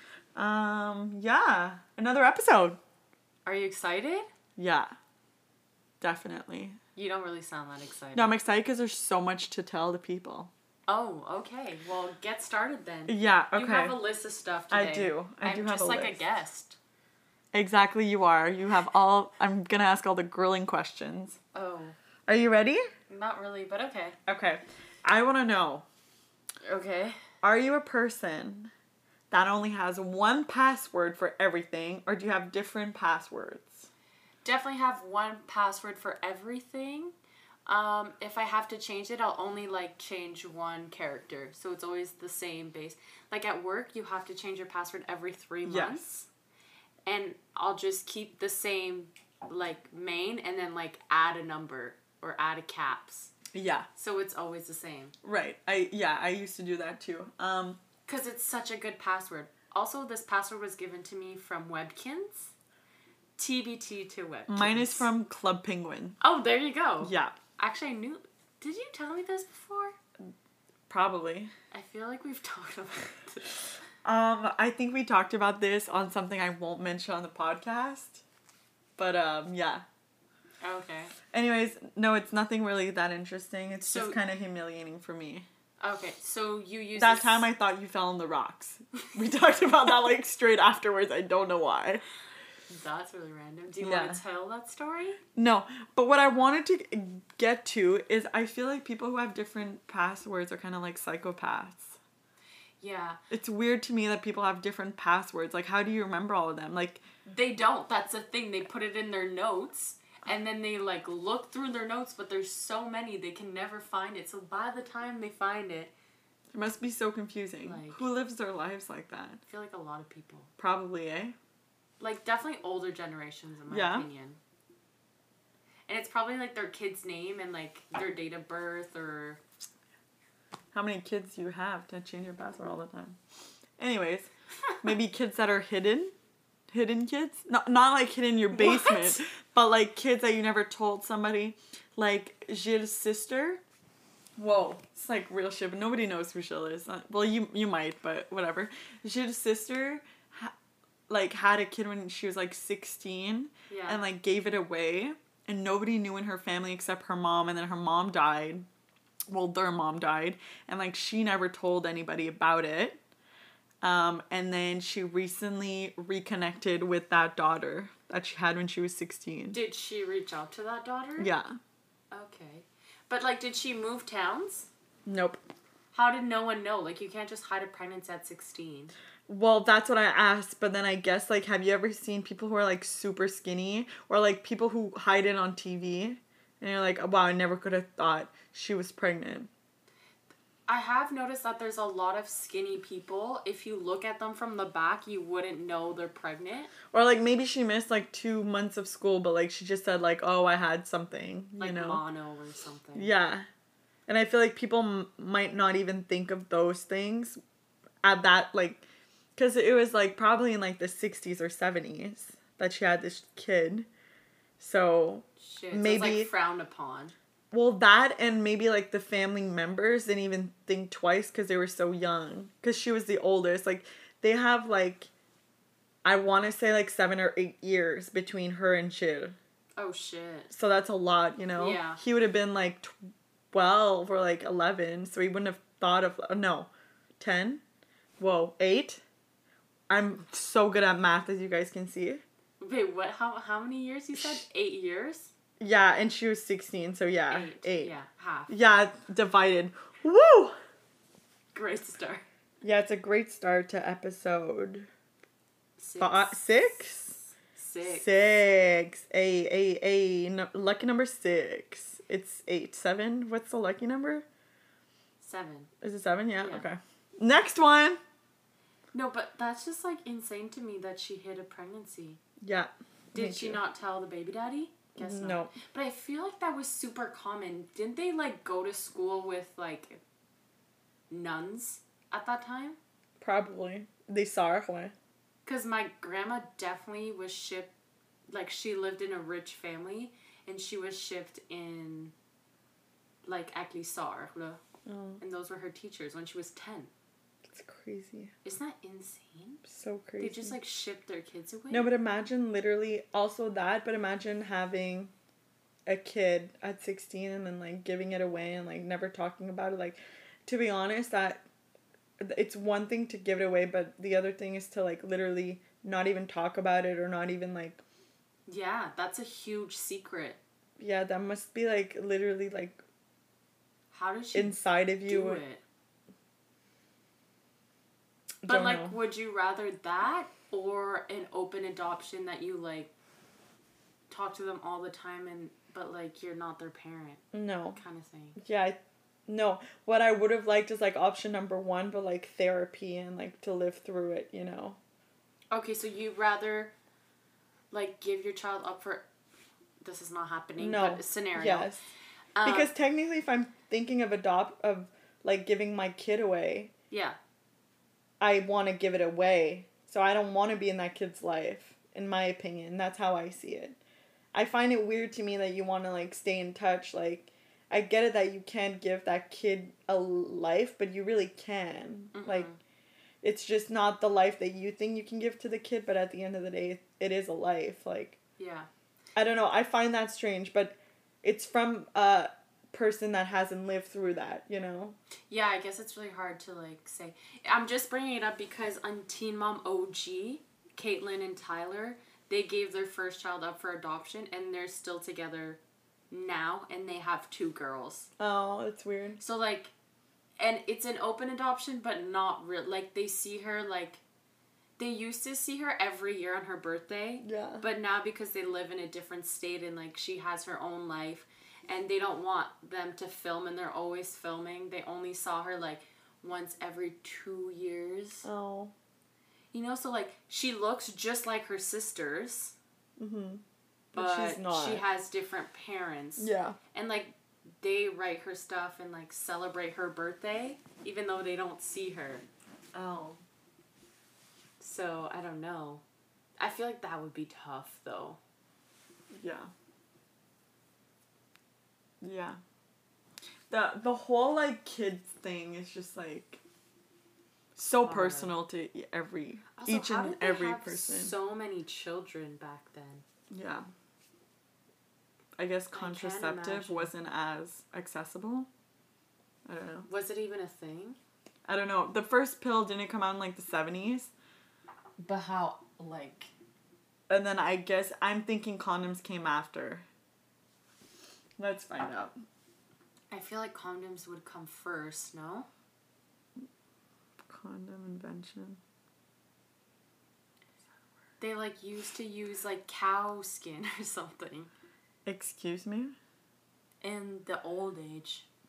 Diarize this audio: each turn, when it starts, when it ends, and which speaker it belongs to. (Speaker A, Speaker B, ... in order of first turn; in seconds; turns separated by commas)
Speaker A: 0.3-2.8, Speaker B: 3.4-4.3, Speaker A: 4.6-4.9, Speaker A: 6.0-6.8, Speaker B: 7.0-8.3, Speaker A: 8.1-10.5, Speaker B: 10.9-16.8, Speaker A: 13.1-14.0, Speaker A: 14.7-16.2, Speaker A: 17.5-21.4, Speaker B: 21.5-21.9, Speaker A: 22.3-22.8, Speaker B: 23.1-24.2, Speaker A: 24.3-25.9, Speaker B: 26.6-27.2, Speaker A: 27.4-28.7, Speaker A: 29.3-33.9, Speaker B: 34.4-37.1, Speaker B: 37.6-46.3, Speaker A: 45.6-46.0, Speaker B: 47.0-53.3, Speaker A: 53.5-53.9, Speaker B: 54.0-55.1, Speaker A: 55.2-57.8, Speaker B: 58.0-62.5, Speaker B: 63.4-65.1, Speaker A: 64.5-66.2, Speaker B: 66.2-70.0, Speaker A: 67.0-67.4, Speaker A: 70.9-71.5, Speaker B: 71.7-73.6, Speaker A: 74.0-78.2, Speaker A: 79.0-79.8, Speaker B: 80.6-81.1, Speaker A: 81.3-85.5, Speaker B: 83.8-84.2, Speaker B: 85.8-87.5, Speaker A: 87.0-92.0, Speaker B: 92.7-95.2, Speaker A: 93.8-94.2, Speaker A: 95.3-102.0, Speaker B: 102.8-103.2, Speaker A: 103.3-107.0, Speaker B: 107.2-115.9, Speaker A: 116.5-119.4, Speaker B: 117.6-118.0, Speaker B: 119.5-120.5, Speaker A: 120.6-121.3, Speaker B: 122.0-124.4, Speaker A: 123.7-124.1, Speaker B: 125.9-129.4, Speaker A: 130.7-133.2, Speaker A: 133.8-134.3, Speaker A: 134.8-136.1, Speaker A: 136.7-143.6, Speaker B: 138.5-139.2, Speaker A: 144.4-150.5, Speaker A: 151.1-158.7, Speaker B: 153.7-154.0, Speaker A: 159.3-163.0, Speaker A: 163.8-169.6, Speaker B: 169.5-171.3, Speaker A: 171.2-171.6, Speaker B: 172.1-174.7, Speaker A: 175.1-175.4, Speaker B: 175.9-178.9, Speaker A: 179.3-189.5, Speaker B: 190.7-196.7, Speaker A: 196.9-202.0, Speaker B: 201.6-203.1, Speaker A: 202.9-203.5, Speaker A: 204.1-207.4, Speaker A: 208.0-208.8, Speaker A: 209.3-213.9, Speaker A: 214.6-216.3, Speaker B: 215.4-217.1, Speaker A: 217.5-225.1, Speaker A: 226.0-229.4, Speaker B: 229.8-230.5, Speaker A: 230.5-232.9, Speaker B: 231.6-232.0, Speaker A: 233.5-237.6, Speaker A: 238.2-239.0, Speaker A: 239.9-242.2, Speaker B: 242.6-245.3, Speaker A: 244.1-244.4, Speaker A: 245.6-247.9, Speaker B: 247.3-248.5, Speaker A: 248.5-250.6, Speaker B: 251.5-252.2, Speaker A: 252.6-254.9, Speaker B: 255.8-258.1, Speaker A: 256.0-257.2, Speaker A: 257.8-264.2, Speaker B: 265.2-265.7, Speaker A: 265.8-268.0, Speaker B: 266.4-266.6, Speaker B: 268.9-272.2, Speaker A: 272.4-273.6, Speaker B: 273.1-280.0, Speaker A: 275.0-275.5, Speaker B: 281.1-282.8, Speaker A: 283.2-284.9, Speaker B: 285.4-287.7, Speaker B: 288.3-292.1, Speaker B: 293.2-294.6, Speaker A: 294.9-295.2, Speaker B: 295.2-296.9, Speaker A: 297.4-298.3, Speaker B: 298.4-299.6, Speaker A: 299.6-300.6, Speaker B: 300.2-301.9, Speaker A: 301.7-305.1, Speaker A: 305.9-311.4, Speaker A: 312.2-317.8, Speaker B: 318.5-320.4, Speaker A: 320.8-322.8, Speaker B: 323.9-325.6, Speaker A: 324.3-325.4, Speaker A: 328.4-329.0, Speaker B: 328.4-332.9, Speaker B: 334.1-338.4, Speaker A: 337.3-337.8, Speaker A: 338.4-344.8, Speaker B: 345.5-346.7, Speaker B: 347.7-349.1, Speaker B: 349.8-351.7, Speaker A: 350.6-351.8, Speaker B: 352.4-352.7, Speaker A: 352.4-356.7, Speaker B: 356.9-357.2, Speaker A: 358.2-363.8, Speaker A: 364.3-372.5, Speaker B: 372.1-372.6, Speaker A: 373.2-378.2, Speaker B: 378.4-378.7, Speaker A: 379.1-385.0, Speaker B: 385.3-395.6, Speaker B: 396.1-398.1, Speaker A: 398.2-399.2, Speaker B: 399.2-399.7, Speaker B: 400.4-404.0, Speaker B: 404.8-418.3, Speaker A: 407.2-407.6, Speaker A: 418.2-418.7, Speaker B: 419.5-422.6, Speaker A: 423.0-424.8, Speaker B: 423.9-432.2, Speaker A: 426.2-426.6, Speaker A: 432.7-433.2, Speaker B: 434.6-435.8, Speaker B: 436.4-438.2, Speaker A: 439.1-439.5, Speaker A: 442.0-442.4, Speaker A: 443.5-446.4, Speaker A: 447.6-451.1, Speaker B: 447.8-448.3, Speaker B: 449.5-453.0, Speaker A: 453.3-453.7, Speaker A: 455.4-458.5, Speaker B: 455.7-456.9, Speaker A: 459.4-459.9, Speaker B: 459.9-461.0, Speaker A: 461.4-464.1, Speaker B: 465.0-466.3, Speaker A: 467.1-469.8, Speaker A: 471.4-472.1, Speaker B: 473.1-475.5, Speaker A: 477.3-478.6, Speaker B: 481.2-484.5, Speaker A: 485.1-485.9, Speaker B: 486.8-488.3